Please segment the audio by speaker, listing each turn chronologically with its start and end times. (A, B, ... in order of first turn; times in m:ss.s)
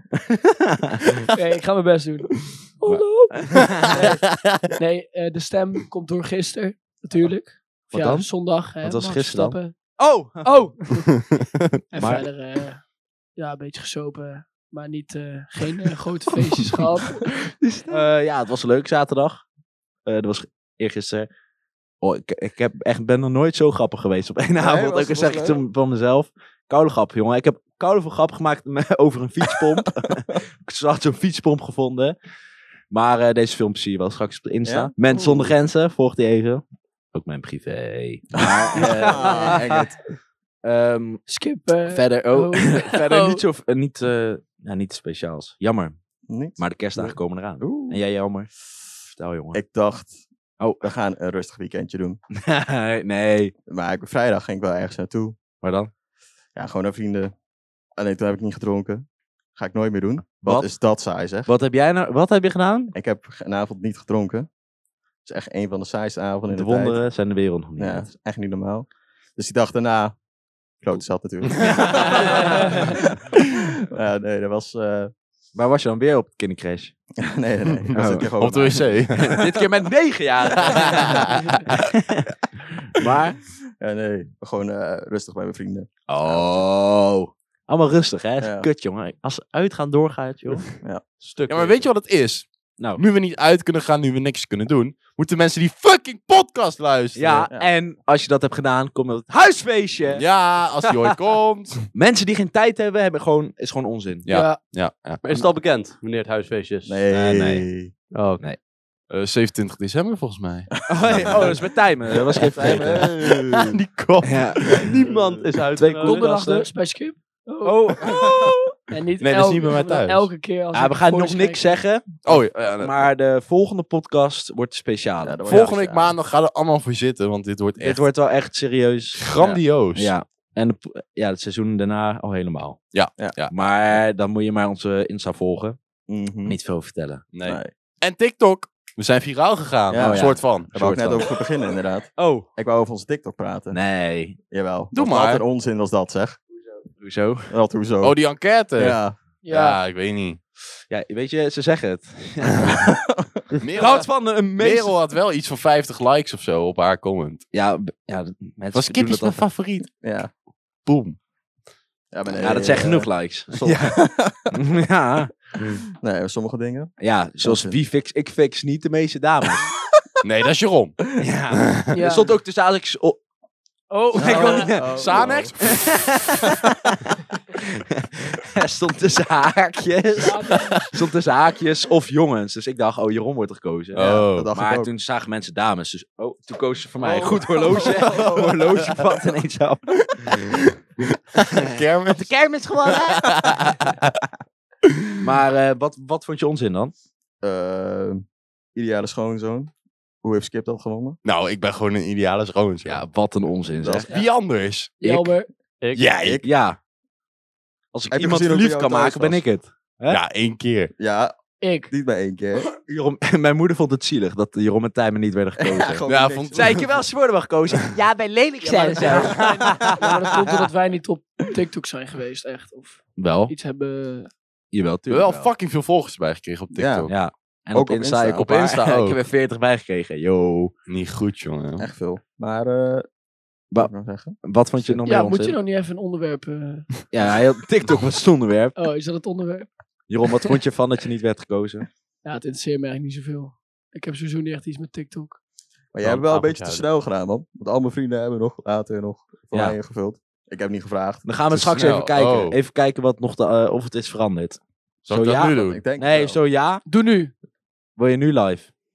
0:00.3-0:01.2 A
0:01.3-0:11.1 B
0:02.9-0:04.1 A
0:07.9-0:10.6 A
0:11.4-0:11.6 C
0:11.9-0:12.8 B
0:12.0-0:12.2 A
0:13.4-0:17.3 B
0:16.3-0:19.4 A
0:20.1-0:21.3 A
0:22.0-0:32.1 A
0:24.6-0:25.6 D
0:32.9-0:39.6 A
0:34.6-0:35.5 D
0:38.5-0:40.0 D
0:40.6-0:41.2 A
0:41.3-0:43.4 B
0:41.9-0:46.0 A
0:46.3-0:48.0 D
0:46.6-0:48.5 A
0:49.1-0:49.6 A
0:49.5-0:50.2 D
0:50.6-0:50.9 A
0:50.8-0:52.2 D
0:52.3-0:53.5 A
0:53.7-0:55.4 D
0:55.6-0:55.9 A
0:56.6-0:57.3 D
0:58.0-0:59.0 D
0:59.6-1:01.5 D
1:00.4-1:00.7 A
1:01.4-1:02.9 A
1:02.9-1:04.5 D
1:05.2-1:07.0 D
1:06.5-1:08.1 A
1:07.8-1:10.2 D
1:10.8-1:15.1 D
1:11.5-1:11.8 C
1:11.6-1:12.8 A
1:15.6-1:16.9 A
1:17.2-1:19.4 D
1:17.8-1:19.4 C
1:17.9-1:18.3 A
1:19.1-1:22.4 A
1:20.6-1:21.6 C
1:22.9-1:23.4 A
1:23.8-1:26.7 D
1:26.1-1:30.6 A
1:28.4-1:28.7 D
1:31.2-1:31.8 E
1:31.5-1:37.5 C
1:37.1-1:40.2 A
1:40.1-1:41.9 C
1:41.9-1:44.3 A
1:44.2-1:45.2 C
1:44.3-1:44.6 B
1:45.2-1:47.0 E
1:46.9-1:47.9 D
1:47.1-1:47.7 A
1:48.1-1:48.4 E
1:49.1-1:51.5 C
1:50.9-1:51.7 D
1:50.9-1:53.1 A
1:52.2-1:53.8 D
1:52.6-1:54.9 C
1:54.2-1:54.6 A
1:54.7-1:55.5 D
1:54.8-1:56.4 E
1:55.8-1:56.7 A
1:56.0-1:58.1 B
1:57.6-1:58.6 A
1:58.2-1:58.5 D
1:58.9-2:01.8 B
1:59.2-2:00.3 C
2:00.7-2:05.7 A
2:02.2-2:03.0 C
2:05.2-2:06.1 D
2:05.4-2:08.1 C
2:07.8-2:09.2 A
2:09.2-2:10.1 C
2:09.9-2:12.8 A
2:12.9-2:13.6 C
2:13.5-2:15.8 A
2:16.1-2:16.6 D
2:16.4-2:17.2 A
2:17.3-2:21.3 C
2:17.4-2:17.7 D
2:19.9-2:23.8 D
2:19.9-2:20.4 A
2:22.2-2:22.5 A
2:23.7-2:24.4 A
2:24.5-2:26.4 D
2:24.9-2:25.4 C
2:27.0-2:27.5 A
2:27.5-2:28.2 D
2:28.0-2:30.4 C
2:28.8-2:29.2 D
2:29.4-2:29.8 B
2:30.9-2:32.8 A
2:33.6-2:37.4 C
2:33.8-2:34.9 A
2:37.5-2:39.4 A
2:38.7-2:39.9 C
2:40.0-2:40.3 D
2:40.8-2:41.2 C
2:42.1-2:44.6 D
2:42.3-2:45.3 A
2:45.8-2:47.8 D
2:47.0-2:49.7 A
2:50.2-2:50.9 C
2:51.2-2:53.2 A
2:51.5-2:51.9 C
2:51.9-2:52.4 B
2:53.9-2:54.8 B
2:54.1-3:10.4 A
2:54.2-2:55.8 D
2:54.9-2:56.1 C
3:00.2-3:00.8 B
3:03.9-3:04.5 C
3:04.0-3:04.9 D
3:07.0-3:08.6 B
3:10.1-3:12.3 C
3:12.1-3:13.7 A
3:12.8-3:14.2 C
3:14.9-3:15.2 C
3:15.2-3:16.9 A
3:17.4-3:19.7 D
3:20.2-3:21.2 D
3:21.2-3:23.1 C
3:22.9-3:24.1 A
3:23.8-3:24.3 D
3:24.1-3:25.0 C
3:25.0-3:25.5 B
3:25.0-3:25.3 A
3:25.9-3:26.4 C
3:26.1-3:26.4 D
3:26.4-3:26.8 A
3:27.9-3:30.2 A
3:28.1-3:29.4 D
3:30.1-3:30.9 C
3:31.0-3:31.3 D
3:31.6-3:31.9 B
3:31.9-3:32.7 D
3:32.7-3:36.0 A
3:35.6-3:36.8 D
3:36.1-3:36.9 C
3:36.5-3:40.0 A
3:38.6-3:44.3 B
3:43.2-3:43.5 A
3:44.7-3:45.5 A
3:45.1-3:47.1 C
3:46.7-3:47.1 D
3:47.1-3:50.7 A
3:47.7-3:48.6 D
3:48.6-3:49.2 C
3:50.9-3:51.9 C
3:51.8-3:53.1 D
3:53.8-3:55.1 D
3:54.4-3:55.6 A
3:55.1-3:56.9 B
3:57.1-3:58.8 A
3:58.8-3:59.7 B
4:00.1-4:01.9 A
4:02.2-4:05.4 B
4:05.9-4:11.4 D
4:06.0-4:06.9 E
4:09.5-4:09.8 A
4:11.2-4:16.8 A
4:11.5-4:12.6 C
4:15.1-4:15.8 C
4:15.5-4:16.4 D
4:16.9-4:17.3 B
4:18.0-4:18.7 A